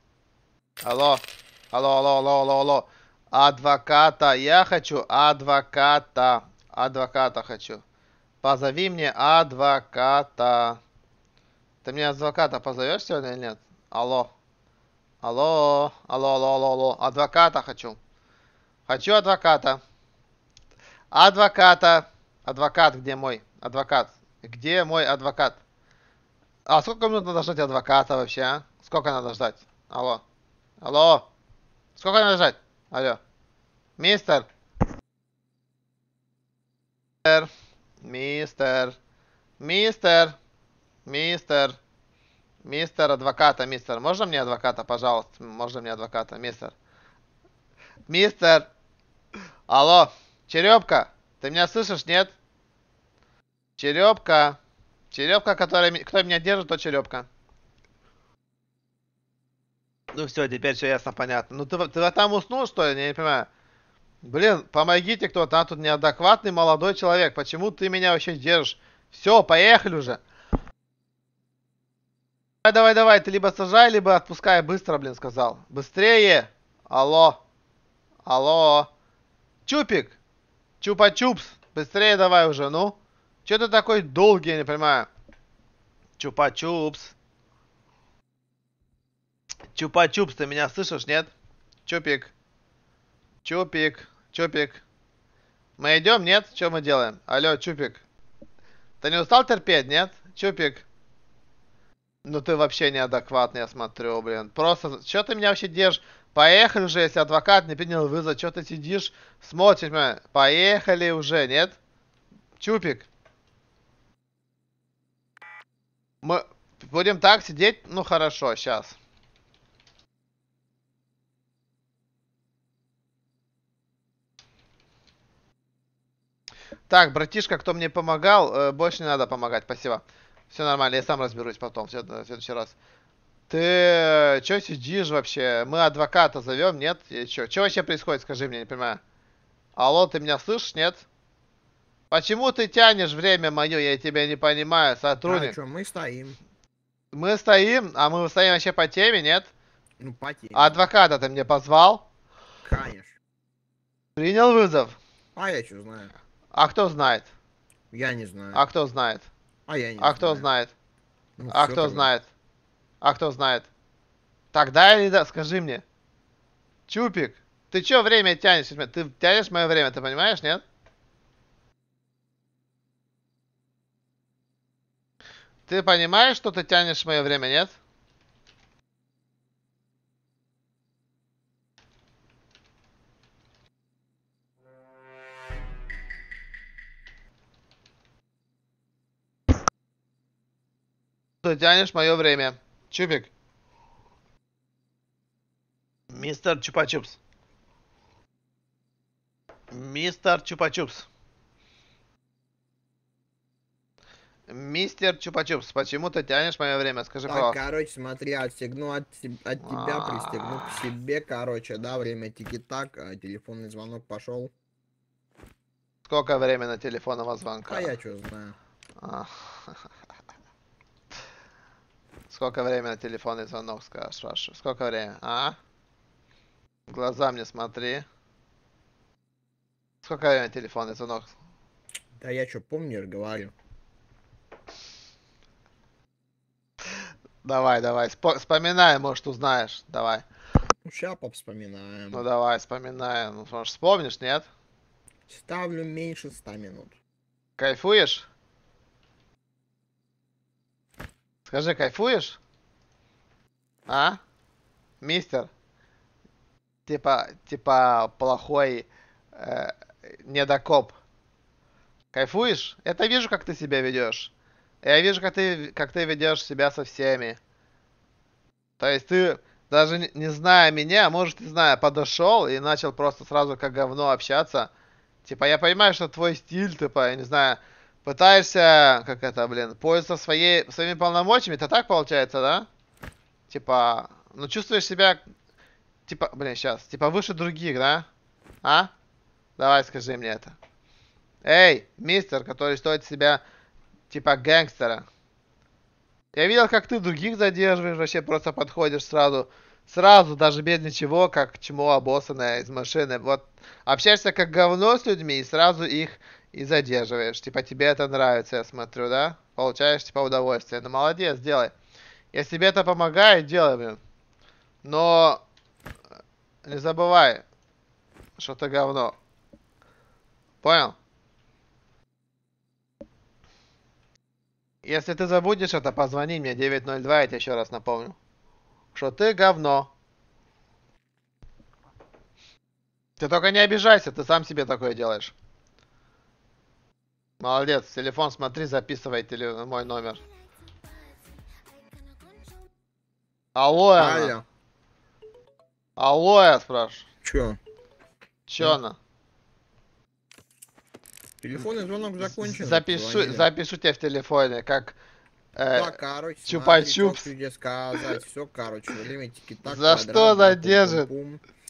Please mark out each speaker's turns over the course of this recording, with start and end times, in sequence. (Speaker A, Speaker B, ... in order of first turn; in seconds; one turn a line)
Speaker A: 0.8-7.8
Speaker A: 8.4-10.8
Speaker A: 11.8-14.3
Speaker A: 15.2-18.0
Speaker A: 18.9-19.8
Speaker A: 21.1-25.6
Speaker A: 26.6-30.2
Speaker A: 30.8-31.3
Speaker A: 31.9-33.2
Speaker A: 34.0-34.5
Speaker A: 38.0-39.0
Speaker A: 39.6-40.3
Speaker A: 41.0-41.8
Speaker A: 42.6-46.7
Speaker A: 48.1-48.7
Speaker A: 49.7-52.3
Speaker A: 53.8-54.6
Speaker A: 55.1-57.3
Speaker A: 60.1-63.5
Speaker A: 64.2-70.2
Speaker A: 72.6-77.4
Speaker A: 78.2-78.9
Speaker A: 79.7-80.2
Speaker A: 80.8-85.1
Speaker A: 86.2-87.1
Speaker A: 89.7-91.3
Speaker A: 91.8-92.3
Speaker A: 93.4-94.8
Speaker A: 95.8-98.0
Speaker A: 99.0-100.8
Speaker A: 102.2-111.8
Speaker A: 112.6-113.1
Speaker A: 116.2-119.0
Speaker A: 126.9-132.7
Speaker A: 133.5-139.0
Speaker A: 139.8-141.0
Speaker A: 142.1-145.6
Speaker B: 145.2-146.4
Speaker A: 147.1-149.5
Speaker B: 150.0-150.9
Speaker A: 150.5-152.0
Speaker B: 152.6-153.2
Speaker A: 154.2-155.0
Speaker B: 155.3-156.1
Speaker A: 156.5-157.3
Speaker B: 157.9-158.6
Speaker A: 158.5-159.3
Speaker B: 159.7-160.5
Speaker A: 160.0-160.7
Speaker B: 161.4-162.1
Speaker A: 161.5-162.3
Speaker A: 163.0-163.7
Speaker A: 164.5-165.8
Speaker A: 166.9-170.6
Speaker A: 175.7-177.8
Speaker A: 191.4-193.3
Speaker A: 196.1-197.2
Speaker A: 199.7-201.1
Speaker A: 204.5-207.6
Speaker B: 207.3-214.5
Speaker A: 209.6-210.8
Speaker A: 216.1-217.9
Speaker B: 217.7-218.6
Speaker A: 219.0-219.7
Speaker A: 222.3-225.6
Speaker A: 226.9-228.0
Speaker A: 230.0-231.3
Speaker B: 232.2-233.5
Speaker A: 237.4-240.2
Speaker B: 240.8-242.3
Speaker A: 242.1-244.5
Speaker B: 245.3-246.9
Speaker A: 247.6-248.3
Speaker A: 251.4-252.4
Speaker A: 253.9-254.2
Speaker A: 255.0-255.5
Speaker A: 256.9-261.0
Speaker A: 262.1-267.4
Speaker A: 268.8-274.7
Speaker A: 275.2-282.7
Speaker A: 283.5-285.2
Speaker A: 286.1-288.1
Speaker A: 288.6-288.9
Speaker A: 289.6-290.5
Speaker A: 291.4-293.4
Speaker A: 294.1-295.0
Speaker A: 296.3-311.7
Speaker A: 312.3-314.0
Speaker A: 314.8-315.4
Speaker A: 316.6-317.4
Speaker A: 318.4-319.1
Speaker A: 320.6-320.9
Speaker A: 324.8-328.1
Speaker A: 328.9-329.9
Speaker A: 333.2-335.3
Speaker A: 337.4-340.2
Speaker A: 343.5-344.3
Speaker B: 344.0-344.4
Speaker A: 345.9-347.1
Speaker B: 347.2-347.6
Speaker A: 348.5-349.0
Speaker B: 351.4-353.5
Speaker A: 352.2-354.9
Speaker A: 355.6-357.3
Speaker B: 355.7-361.4
Speaker A: 359.6-361.1